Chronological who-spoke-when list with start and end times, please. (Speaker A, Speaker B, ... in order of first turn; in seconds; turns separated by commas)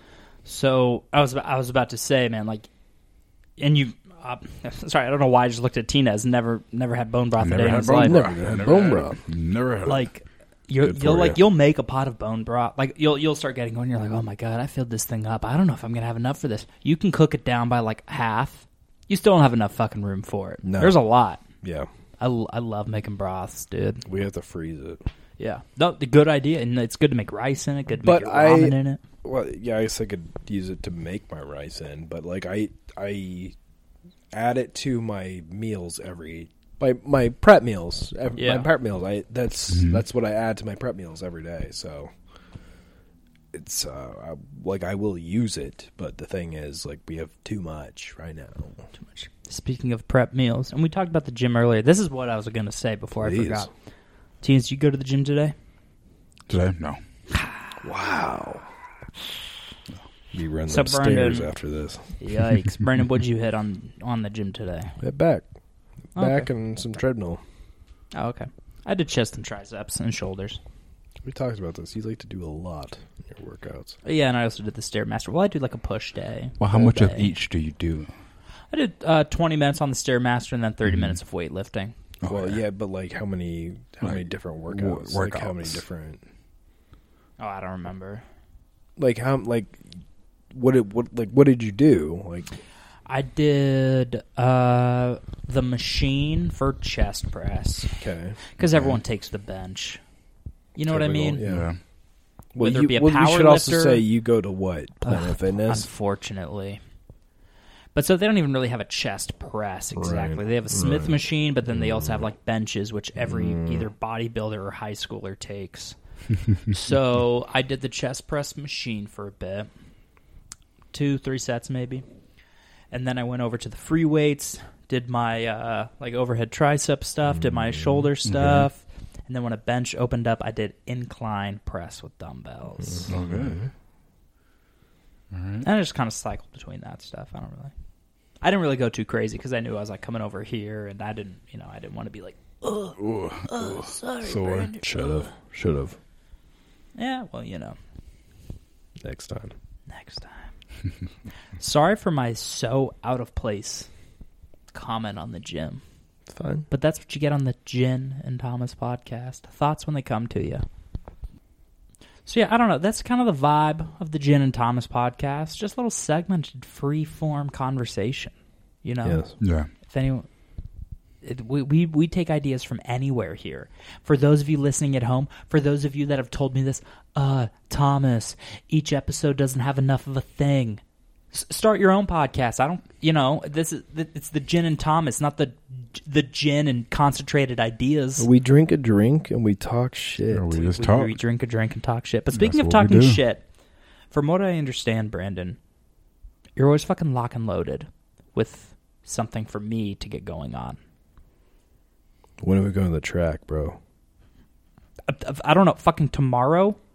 Speaker A: 0.5-2.7, Speaker A: 3.6-8.2, Speaker B: 7.4-10.0, Speaker C: 7.7-9.2, Speaker A: 9.8-21.4, Speaker C: 10.8-11.4, Speaker C: 20.6-21.0, Speaker C: 21.6-21.9, Speaker A: 22.2-24.0, Speaker C: 24.1-25.0, Speaker A: 25.4-29.0, Speaker C: 28.0-33.5, Speaker C: 34.3-42.1, Speaker A: 38.4-38.7, Speaker B: 39.7-40.0, Speaker C: 43.5-48.8, Speaker A: 49.0-53.7, Speaker C: 53.2-53.7, Speaker A: 54.4-55.5, Speaker B: 56.5-57.0, Speaker C: 57.8-58.7, Speaker C: 60.3-62.1, Speaker A: 60.7-61.5, Speaker A: 62.2-65.0, Speaker C: 65.0-65.5, Speaker C: 66.1-67.4, Speaker A: 66.2-66.5, Speaker A: 68.1-70.6, Speaker C: 71.3-74.0, Speaker A: 74.0-77.3, Speaker B: 76.6-78.1, Speaker A: 78.7-81.9, Speaker B: 80.9-81.1, Speaker B: 82.2-82.6, Speaker C: 82.2-86.2, Speaker B: 84.0-85.8, Speaker A: 87.4-88.2, Speaker C: 89.0-89.8, Speaker C: 90.5-92.5, Speaker A: 93.1-98.0, Speaker C: 98.0-98.4, Speaker A: 98.5-100.0, Speaker B: 98.6-99.0, Speaker A: 100.8-101.4, Speaker C: 100.9-101.7, Speaker B: 101.4-101.8, Speaker C: 102.5-105.9, Speaker A: 102.6-104.0, Speaker A: 105.1-106.8, Speaker A: 108.0-116.0, Speaker C: 110.0-111.2, Speaker C: 111.8-112.2, Speaker C: 113.2-113.9, Speaker A: 116.7-119.7, Speaker A: 120.9-122.0, Speaker A: 122.9-133.1, Speaker C: 127.3-128.0, Speaker B: 128.2-128.7, Speaker C: 132.8-133.7, Speaker B: 133.1-133.6, Speaker B: 135.3-135.7, Speaker A: 135.6-137.7, Speaker A: 138.4-145.2, Speaker B: 143.0-144.7, Speaker C: 144.8-146.0, Speaker A: 147.0-147.8, Speaker C: 149.0-149.5, Speaker A: 149.9-150.5, Speaker A: 151.6-153.9, Speaker A: 154.7-155.8, Speaker C: 156.3-156.7, Speaker A: 156.7-160.7, Speaker A: 162.3-169.2, Speaker C: 169.0-169.3, Speaker B: 169.4-169.7, Speaker A: 169.9-170.3, Speaker A: 171.2-180.8, Speaker A: 181.3-188.3, Speaker C: 188.2-190.6, Speaker B: 190.3-191.2, Speaker A: 190.6-193.4, Speaker B: 192.3-193.2, Speaker A: 194.1-195.6, Speaker A: 196.6-200.8, Speaker C: 202.4-203.8, Speaker A: 205.1-206.8